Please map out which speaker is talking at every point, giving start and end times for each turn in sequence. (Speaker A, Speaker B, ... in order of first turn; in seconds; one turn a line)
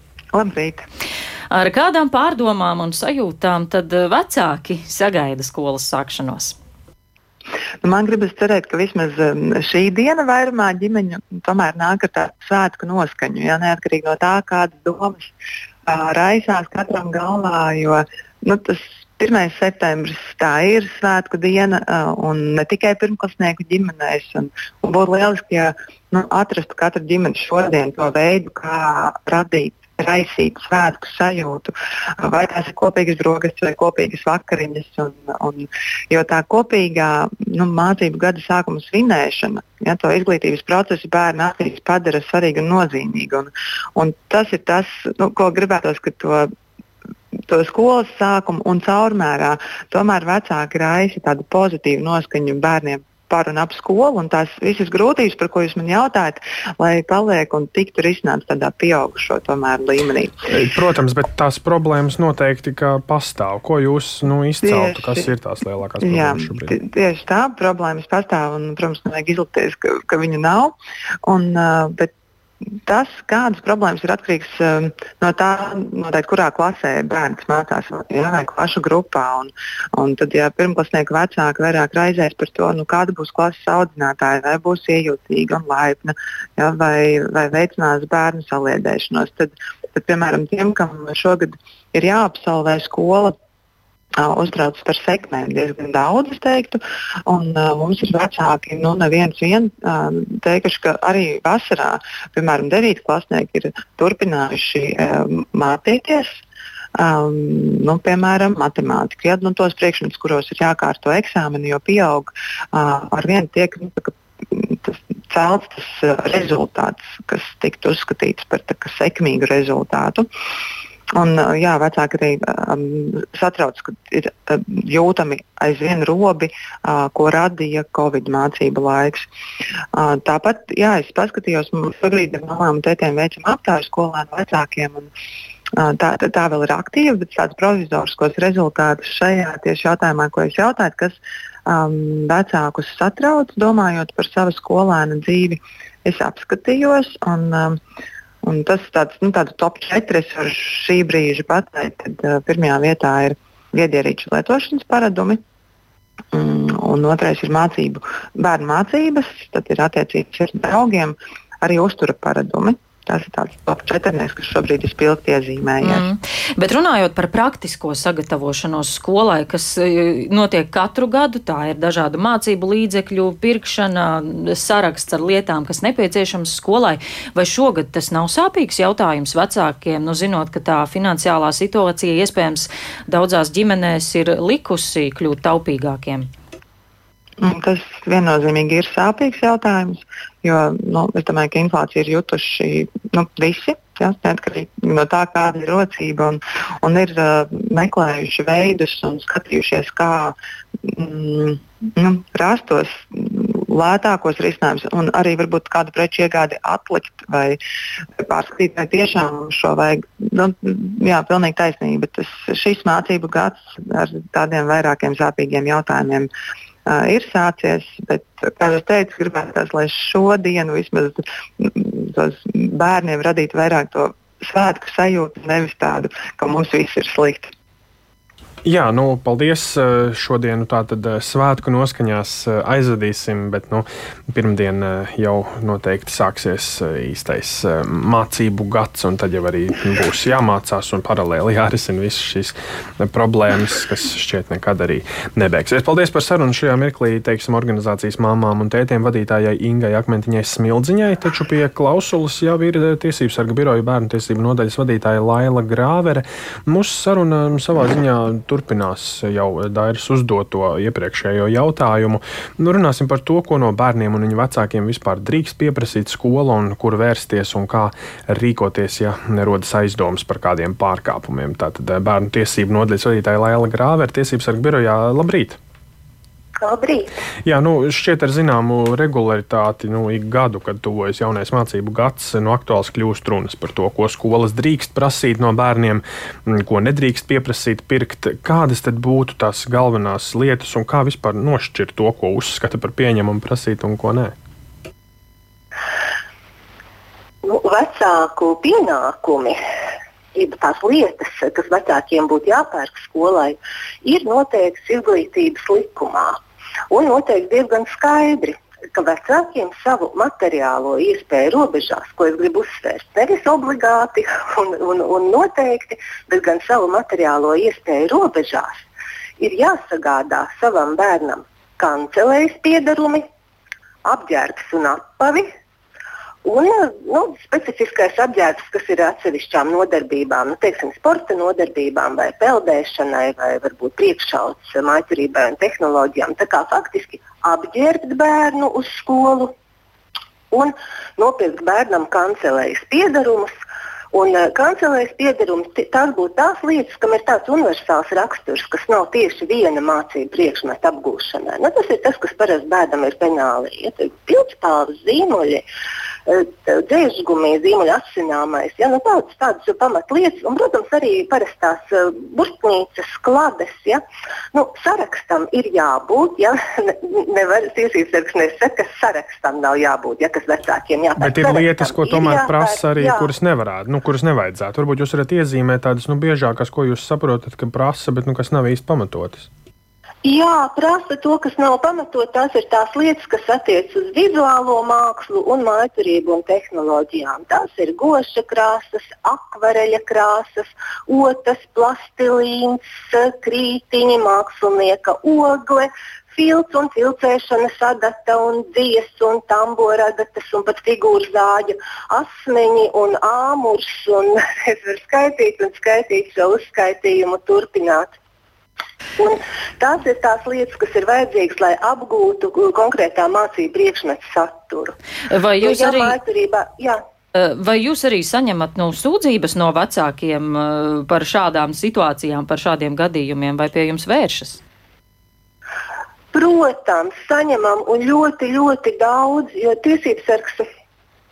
Speaker A: 0.3-0.9
Speaker B: 1.5-6.6
Speaker A: 7.8-15.3
Speaker A: 15.9-46.5
Speaker A: 47.5-60.4
Speaker C: 60.5-66.8
Speaker A: 64.6-65.3
Speaker A: 66.0-72.1
Speaker A: 72.8-93.3
Speaker A: 94.2-106.4
Speaker A: 107.0-120.3
Speaker A: 121.2-129.3
Speaker A: 129.9-135.1
Speaker A: 135.8-147.8
Speaker A: 148.4-155.4
Speaker A: 156.3-166.1
Speaker B: 165.8-186.3
Speaker A: 187.4-207.6
Speaker A: 208.2-216.3
Speaker A: 216.9-227.5
Speaker C: 228.7-275.6
Speaker D: 276.6-277.1
Speaker C: 277.4-294.4
Speaker D: 297.4-299.6
Speaker D: 300.4-306.4
Speaker D: 306.9-318.9
Speaker D: 319.4-323.3
Speaker D: 324.0-325.5
Speaker D: 326.4-339.5
Speaker D: 340.5-343.5
Speaker D: 344.1-355.7
Speaker D: 356.3-364.0
Speaker D: 364.5-373.3
Speaker C: 371.2-379.5
Speaker D: 380.2-408.2
Speaker D: 409.2-415.0
Speaker B: 415.3-416.2
Speaker D: 415.6-417.0
Speaker B: 417.3-424.6
Speaker D: 426.3-430.6